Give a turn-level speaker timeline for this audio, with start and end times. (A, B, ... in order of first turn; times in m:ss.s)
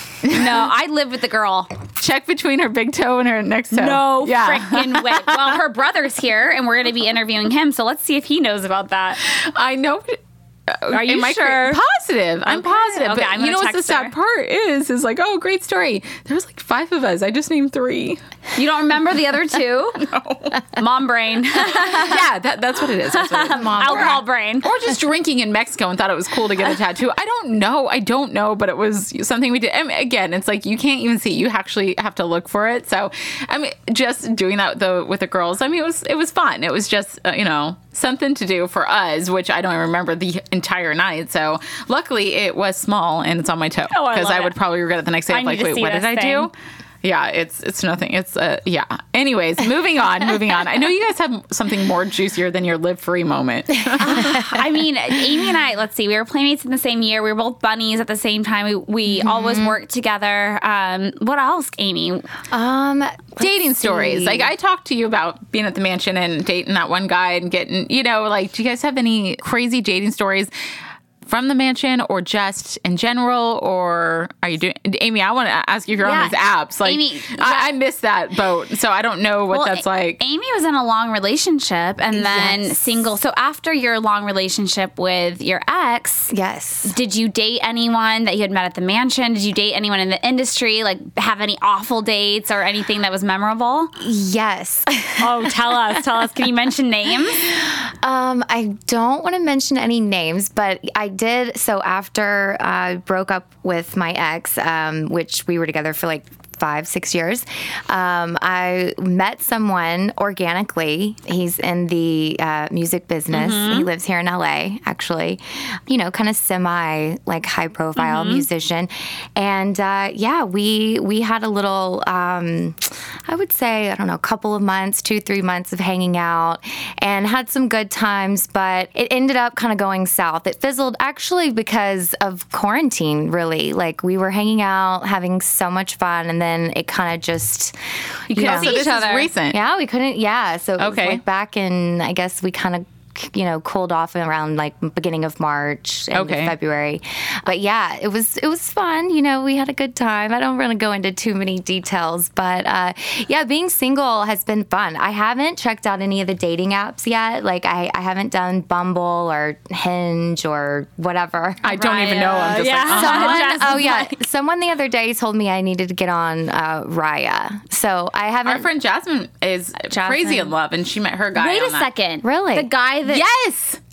0:00.2-0:00.7 A
0:00.3-0:01.7 B
0:02.0-0:05.6 A
0:03.7-0:09.2 B
0:09.2-0:18.2 A
0:10.9-0:11.8 B
0:12.5-0:14.1 B
0:18.6-0:20.0 B
0:20.0-0:20.7 A
0:20.7-0:22.2 B
0:21.6-0:46.5 A
0:23.1-0:24.7 B
0:43.9-0:44.5 B
0:45.3-0:46.5 B
0:47.0-0:54.6 A
0:54.0-1:02.3 B
0:54.1-0:54.4 C
0:59.1-0:59.8 C
1:02.5-1:04.5 C
1:03.4-1:10.5 A
1:11.2-1:20.2 A
1:16.0-1:17.7 B
1:19.5-1:26.3 B
1:22.1-1:22.8 C
1:26.3-1:26.9 C
1:26.8-1:33.9 B
1:34.0-1:36.0 C
1:35.2-1:37.5 B
1:37.3-2:17.7 C
1:53.3-1:53.9 B
1:58.0-1:58.4 B
2:18.3-2:18.8 C
2:18.3-2:19.6 A
2:18.3-2:19.3 B
2:19.5-2:48.7 C
2:20.8-2:21.2 A
2:26.1-2:26.5 A
2:41.6-2:43.8 A
2:41.7-2:44.2 B
2:48.4-2:51.9 A
2:49.9-2:50.5 B
2:51.4-2:53.2 B
2:52.2-2:52.7 C
2:53.0-2:53.8 A